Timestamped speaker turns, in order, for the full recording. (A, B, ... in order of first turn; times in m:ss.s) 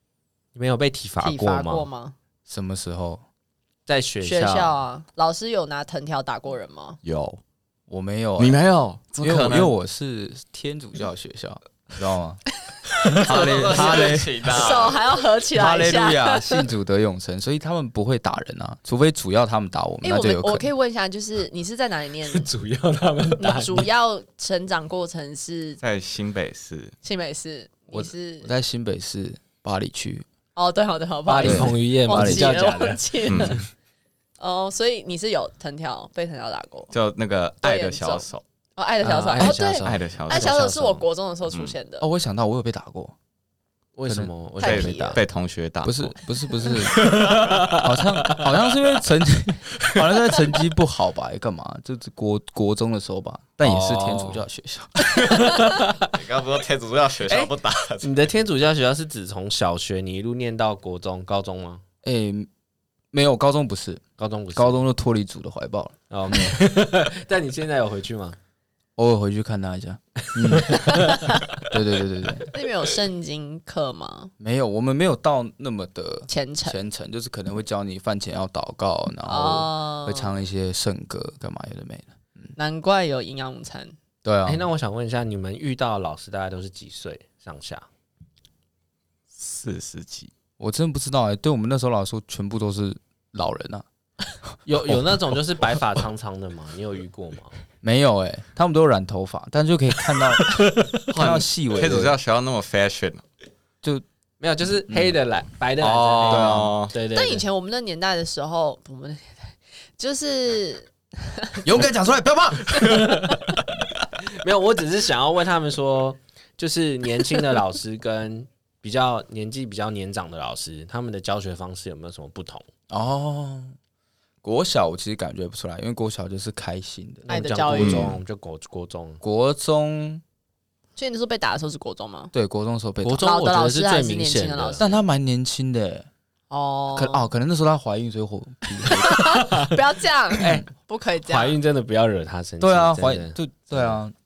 0:00.6-0:01.9 A
0:01.2-0:02.2 B
0:02.5-0:03.2 C
0:03.9-0:04.8 A
0:04.2-0:07.0 B
0:07.0-0:07.4 D
0:07.9-0:08.6 C
0:08.4-0:09.7 D
0:09.2-0:12.4 C
0:13.2-0:14.5 C
0:13.2-0:15.0 D
0:13.6-0:16.7 B
0:15.6-0:20.7 C
0:20.0-0:22.5 B
0:22.3-0:23.9 A
0:23.4-0:25.8 B
0:25.8-0:27.0 D
0:27.0-0:28.5 B
0:27.9-0:30.2 C
0:30.6-0:33.6 B
0:31.3-0:33.6 A
0:31.4-0:32.8 C
0:33.3-0:33.6 D
0:34.4-0:36.9 B
0:36.9-0:38.4 D
0:37.6-0:42.0 B
0:39.0-0:41.0 A
0:39.4-0:39.8 C
0:39.8-0:40.6 D
0:41.5-0:41.8 D
0:42.0-0:43.2 C
0:44.0-0:45.2 A
0:44.1-0:44.3 C
0:44.6-0:45.2 B
0:44.6-0:46.2 D
0:45.8-0:55.1 C
0:46.8-0:48.5 A
0:47.3-0:47.5 D
0:53.6-0:54.4 A
0:55.2-0:56.1 A
0:56.1-0:58.1 D
0:57.3-1:01.8 A
1:02.0-1:02.5 C
1:03.1-1:04.0 C
1:04.2-1:04.8 A
1:04.5-1:06.6 C
1:06.1-1:08.4 A
1:09.0-1:11.1 C
1:10.5-1:11.2 A
1:11.1-1:11.3 B
1:11.7-1:12.5 C
1:12.5-1:14.3 B
1:14.4-1:22.5 C
1:16.3-1:16.8 B
1:19.3-1:20.4 B
1:22.6-1:24.0 B
1:24.2-1:24.6 C
1:24.5-1:27.9 A
1:29.4-1:30.3 D
1:30.6-1:33.8 C
1:34.7-1:37.6 A
1:37.8-1:42.2 C
1:40.5-1:41.0 A
1:41.1-1:43.2 D
1:44.4-1:47.4 A
1:44.9-1:45.2 C
1:45.8-1:46.9 D
1:46.2-1:46.7 C
1:47.1-1:51.6 B
1:51.6-1:53.1 C
1:52.8-1:53.3 A
1:54.3-2:02.7 A
2:02.9-2:03.7 C
2:04.4-2:08.2 C
2:07.3-2:09.2 A
2:07.3-2:08.1 B
2:07.8-2:08.1 D
2:09.2-2:10.2 C
2:11.0-2:12.3 B
2:12.3-2:13.2 C
2:13.0-2:14.9 A
2:13.2-2:15.0 B
2:14.8-2:16.1 C
2:16.5-2:17.2 B
2:16.9-2:19.3 C
2:18.8-2:21.6 B
2:20.4-2:20.6 A
2:21.3-2:24.0 A
2:22.6-2:24.1 C